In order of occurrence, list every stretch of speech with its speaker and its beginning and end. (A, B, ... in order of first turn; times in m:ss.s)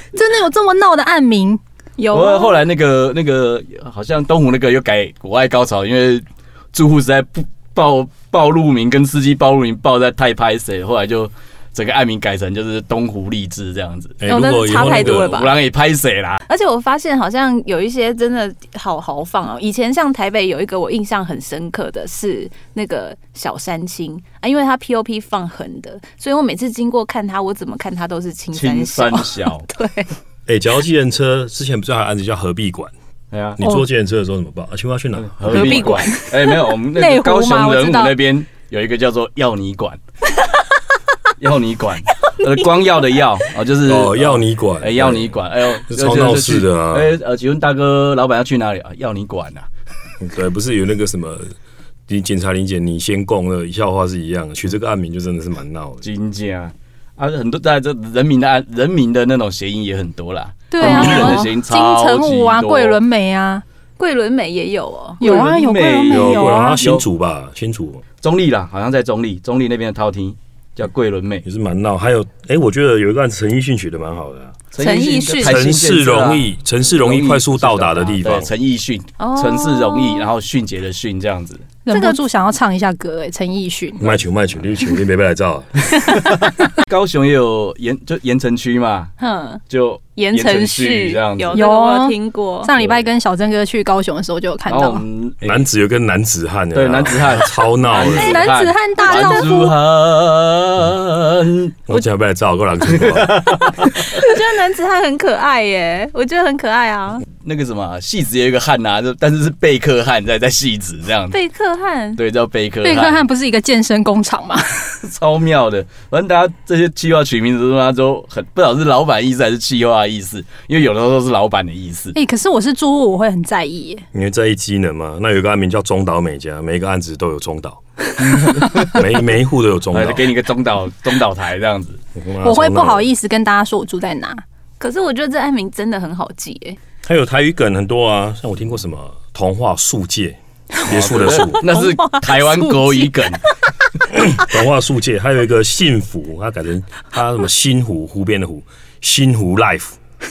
0:00.2-0:02.6 A
0:02.1-0:16.4 B
0:14.2-0:15.4 C
0:14.2-0:15.5 D
0:16.5-0:30.1 D
0:28.5-0:29.7 B
0:30.5-0:32.9 C
0:33.3-0:33.6 B
0:33.6-0:36.1 C
0:35.2-0:40.0 B
0:35.5-0:36.3 D
0:36.9-0:38.2 A
0:41.4-0:49.7 B
0:43.8-0:45.4 C
0:45.9-0:47.2 C
0:50.2-0:51.5 C
0:52.1-0:56.1 C
0:56.0-1:03.0 B
1:00.7-1:03.6 A
1:00.8-1:01.5 D
1:04.0-1:05.2 D
1:05.2-1:06.8 A
1:05.2-1:07.0 B
1:06.1-1:08.0 C
1:08.2-1:11.4 B
1:11.4-1:14.6 C
1:14.7-1:21.7 B
1:14.8-1:15.6 D
1:15.4-1:18.5 C
1:19.2-1:20.3 D
1:21.9-1:24.0 A
1:21.9-1:22.2 D
1:24.0-1:26.1 C
1:26.0-1:29.1 B
1:29.2-1:29.6 D
1:29.7-1:31.7 B
1:30.2-1:32.7 D
1:31.6-1:35.0 A
1:34.7-1:35.7 B
1:35.4-1:38.5 C
1:36.7-1:41.8 B
1:38.0-1:39.8 A
1:39.1-1:39.4 D
1:41.9-1:43.8 C
1:43.0-1:43.8 B
1:44.0-1:47.3 D
1:47.4-1:51.4 B
1:51.3-1:52.2 D
1:52.2-1:53.2 B
1:52.8-1:55.0 A
1:55.0-2:02.2 B
2:02.1-2:04.1 A
2:04.1-2:07.8 C
2:08.2-2:09.0 B
2:08.4-2:10.3 C
2:09.9-2:12.0 B
2:12.2-2:13.1 C
2:12.4-2:14.4 A
2:14.8-2:16.8 D
2:17.0-2:21.6 C
2:20.9-2:23.4 B
2:21.4-2:23.1 D
2:24.2-2:30.0 C